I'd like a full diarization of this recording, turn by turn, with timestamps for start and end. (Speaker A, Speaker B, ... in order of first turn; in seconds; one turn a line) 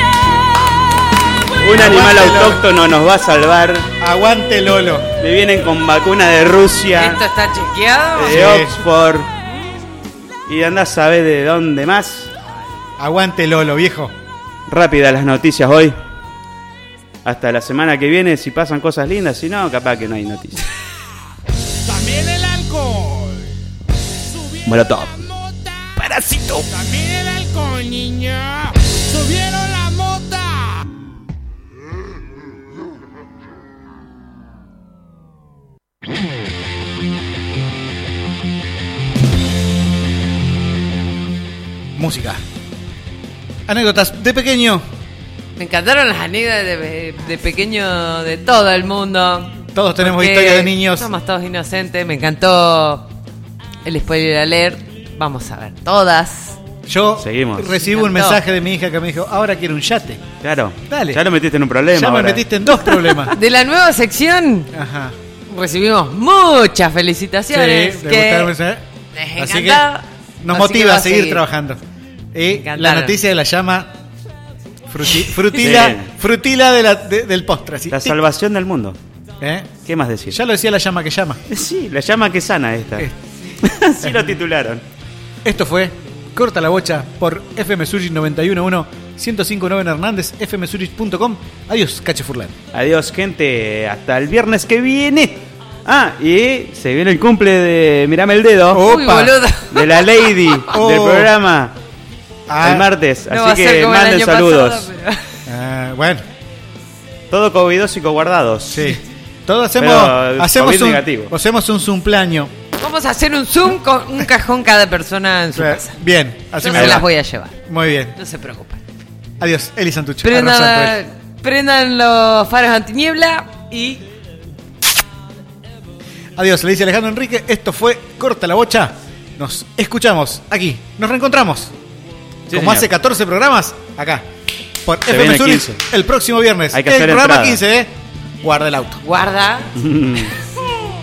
Speaker A: 1.6-3.9
Speaker B: 1.7-2.6
Speaker B: 4.0-5.1
Speaker A: 5.2-7.2
Speaker C: 6.9-8.5
Speaker A: 8.2-9.3
Speaker B: 8.3-8.8
Speaker A: 10.5-12.3
Speaker B: 13.0-14.1
Speaker A: 14.7-15.9
Speaker A: 17.2-20.6
Speaker D: 21.9-23.5
Speaker D: 24.2-26.1
Speaker A: 24.6-25.2
Speaker A: 26.0-26.7
Speaker D: 26.7-30.8
Speaker B: 41.9-42.4
Speaker B: 43.7-44.9
Speaker C: 45.6-53.1
Speaker B: 49.7-51.1
Speaker C: 53.8-56.6
Speaker B: 56.9-60.2
Speaker A: 57.2-57.7
Speaker C: 57.7-58.4
Speaker A: 60.4-62.5
Speaker B: 60.9-61.2
Speaker B: 61.9-63.4
Speaker C: 63.2-64.7
Speaker B: 64.7-65.2
Speaker C: 65.5-68.5
Speaker B: 67.5-68.8
Speaker C: 69.1-71.4
Speaker B: 69.3-69.9
Speaker B: 70.4-71.8
Speaker B: 72.3-73.9
Speaker C: 72.5-73.2
Speaker B: 74.9-78.2
Speaker A: 75.5-76.1
Speaker A: 77.9-79.0
Speaker B: 79.4-79.8
Speaker A: 79.8-80.4
Speaker B: 80.3-81.4
Speaker A: 81.5-83.1
Speaker A: 83.6-84.8
Speaker B: 84.0-84.3
Speaker B: 85.4-92.5
Speaker A: 92.7-98.8
Speaker B: 98.7-99.3
Speaker C: 98.8-100.7
Speaker A: 99.7-101.8
Speaker B: 100.7-101.3
Speaker B: 102.5-102.9
Speaker A: 102.6-104.9
Speaker C: 103.3-105.4
Speaker B: 105.5-106.2
Speaker A: 107.3-109.0
Speaker B: 108.7-112.5
Speaker A: 109.8-111.3
Speaker C: 112.8-116.0
Speaker B: 115.5-117.0
Speaker C: 116.6-117.6
Speaker A: 116.7-117.0
Speaker B: 117.7-118.2
Speaker C: 118.2-118.8
Speaker B: 119.4-121.0
Speaker C: 120.2-124.0
Speaker B: 126.4-131.7
Speaker A: 132.5-132.9
Speaker B: 132.5-134.3
Speaker B: 134.8-139.0
Speaker A: 135.1-135.8
Speaker A: 136.7-137.6
Speaker C: 139.0-139.8
Speaker A: 139.8-140.3